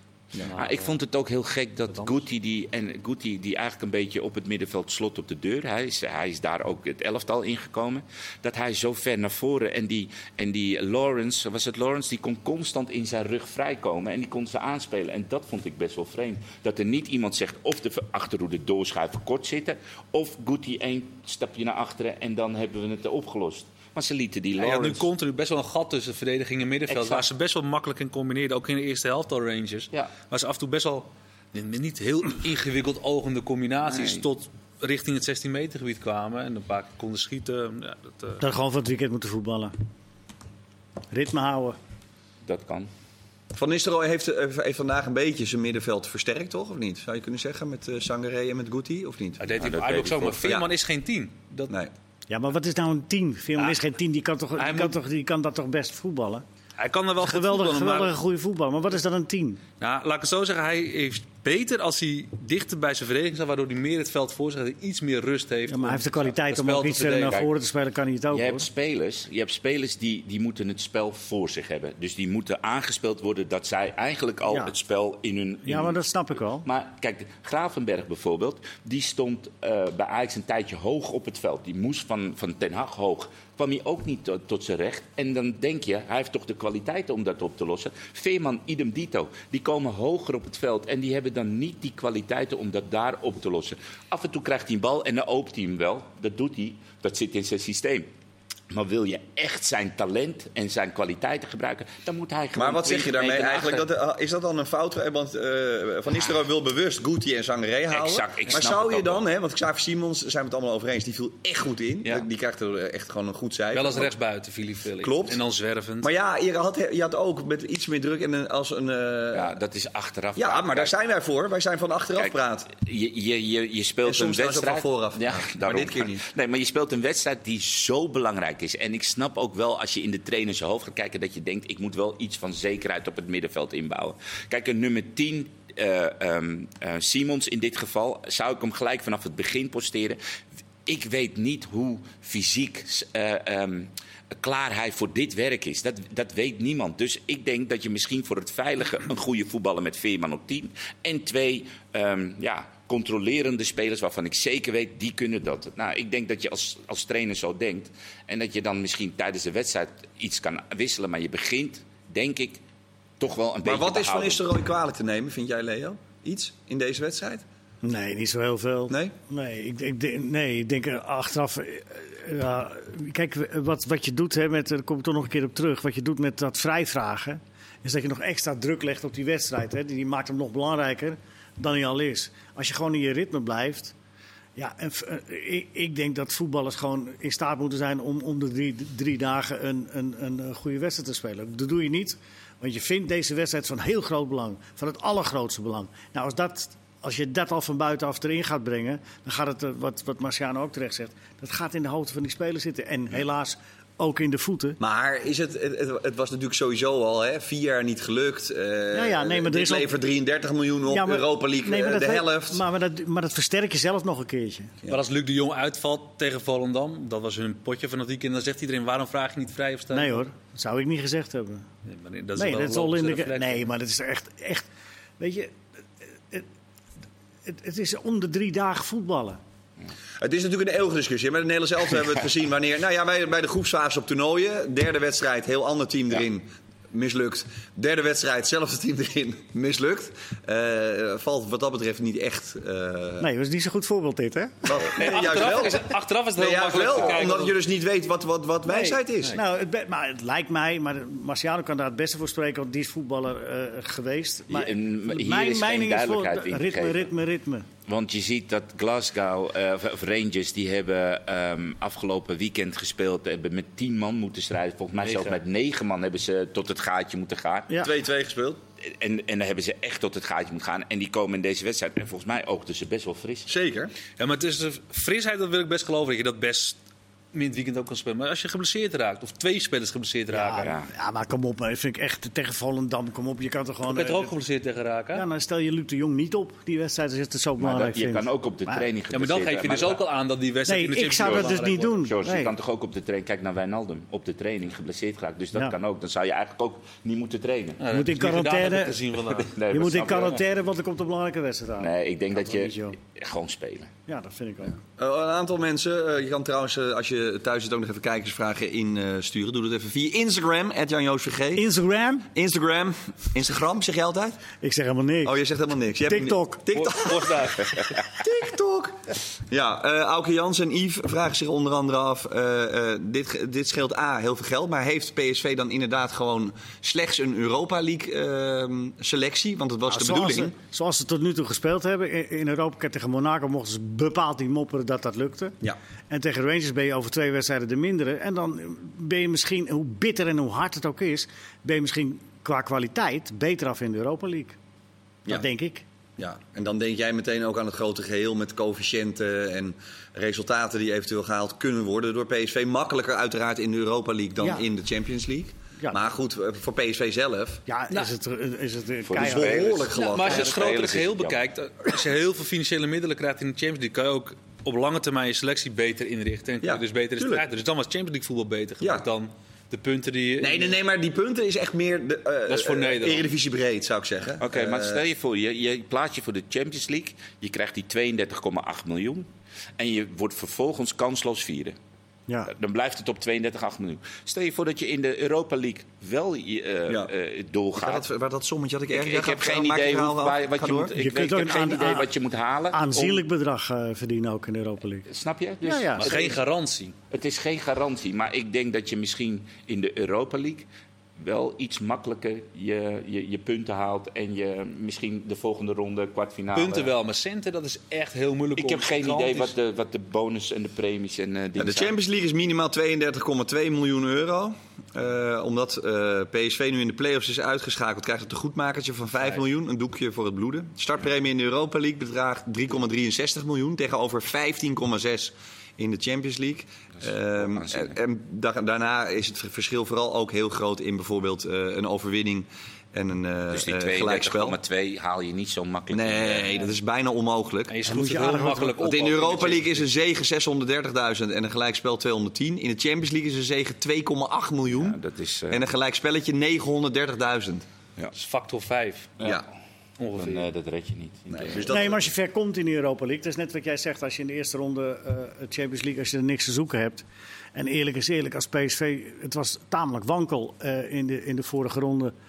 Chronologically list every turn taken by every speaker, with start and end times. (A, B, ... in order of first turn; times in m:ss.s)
0:00.4-0:25.1 A
0:00.5-0:00.9 B
0:01.9-0:02.2 B
0:24.6-0:38.4 B
0:26.9-0:27.2 A
0:33.9-0:34.2 A
0:38.4-0:39.7 C
0:41.1-0:41.8 C
0:42.4-0:42.9 A
0:43.5-0:49.4 D
0:49.4-0:51.7 B
0:49.6-0:50.5 A
0:52.3-0:56.4 C
0:54.6-0:55.0 B
0:56.8-0:58.1 B
0:57.2-0:59.6 C
0:59.8-1:07.5 B
1:05.7-1:08.7 C
1:08.3-1:16.0 A
1:15.6-1:16.6 C
1:16.6-1:38.1 A
1:38.7-1:43.8 A
1:42.5-1:54.1 D
1:47.9-1:49.2 A
1:53.7-1:56.1 B
1:55.0-1:55.4 D
1:56.0-1:59.5 D
1:59.3-2:00.9 A
2:00.4-2:02.7 D
2:02.2-2:20.2 A
2:04.0-2:06.2 D
2:20.8-2:42.6 A
2:43.2-2:44.4 A
2:43.6-2:47.4 D
2:47.8-3:03.9 C
2:48.9-2:49.1 D
3:04.6-3:24.8 C
3:24.8-3:32.6 D
3:28.9-3:29.9 C
3:30.9-3:34.8 C
3:34.9-3:40.2 B
3:39.9-3:41.6 C
3:41.8-3:43.6 B
3:42.4-3:44.7 C
3:45.2-3:45.6 C
3:47.4-3:49.4 C
3:50.2-4:03.3 D
4:03.2-4:04.9 C
4:04.6-4:09.4 D
4:04.9-4:07.6 B
4:08.7-4:17.6 C
4:14.5-4:17.1 A
4:17.8-4:27.8 A
4:25.0-4:25.4 B
4:27.8-4:28.6 D
4:28.8-4:33.5 A
4:33.5-4:33.9 D
4:34.2-4:36.8 B
4:37.3-4:40.7 B
4:40.3-4:44.3 C
4:40.6-4:40.9 A
4:43.9-4:45.2 B
4:45.1-4:48.8 C
4:47.6-4:50.0 A
4:49.1-4:51.9 B
4:50.6-4:52.5 C
4:51.2-4:57.8 A
4:57.8-5:00.3 B
4:57.9-4:59.0 C
4:59.4-5:00.4 A
4:59.7-5:03.0 C
5:01.8-5:03.9 A
5:04.1-5:04.8 C
5:05.0-5:11.7 D
5:11.5-5:12.3 C
5:12.3-5:14.4 D
5:14.6-5:15.4 C
5:15.2-5:30.5 D
5:16.0-5:16.7 C
5:16.7-5:17.9 B
5:29.9-5:35.6 C
5:36.1-5:44.6 C
5:45.3-5:45.8 C
5:46.2-5:57.6 D
5:57.7-5:59.7 C
5:59.0-6:01.4 A
5:59.2-6:00.8 D
5:59.9-6:10.8 B
6:06.6-6:07.4 D
6:08.8-6:09.0 D
6:10.4-6:15.0 D
6:12.5-6:13.3 B
6:14.4-6:19.3 A
6:19.8-6:21.8 A
6:22.5-6:28.0 A
6:26.9-6:27.1 D
6:27.8-6:30.9 D
6:28.9-6:33.2 A
6:31.0-6:32.1 C
6:32.7-6:35.1 C
6:35.1-6:36.4 A
6:35.6-6:36.1 C
6:36.0-6:36.9 B
6:37.1-6:40.7 A
6:41.2-6:46.9 A
6:46.5-6:49.5 B
6:48.6-6:51.9 A
6:51.6-7:14.6 D
7:07.4-7:07.9 A
7:13.5-7:16.6 A
7:15.9-7:17.8 D
7:17.7-7:19.8 B
7:17.8-7:18.8 C
7:18.8-7:25.0 D
7:24.7-7:25.6 A
7:25.5-7:27.6 D
7:28.1-7:29.2 B
7:29.2-7:29.5 A
7:30.0-7:30.5 B
7:30.1-7:31.7 A
7:31.3-7:32.0 D
7:31.7-7:42.1 C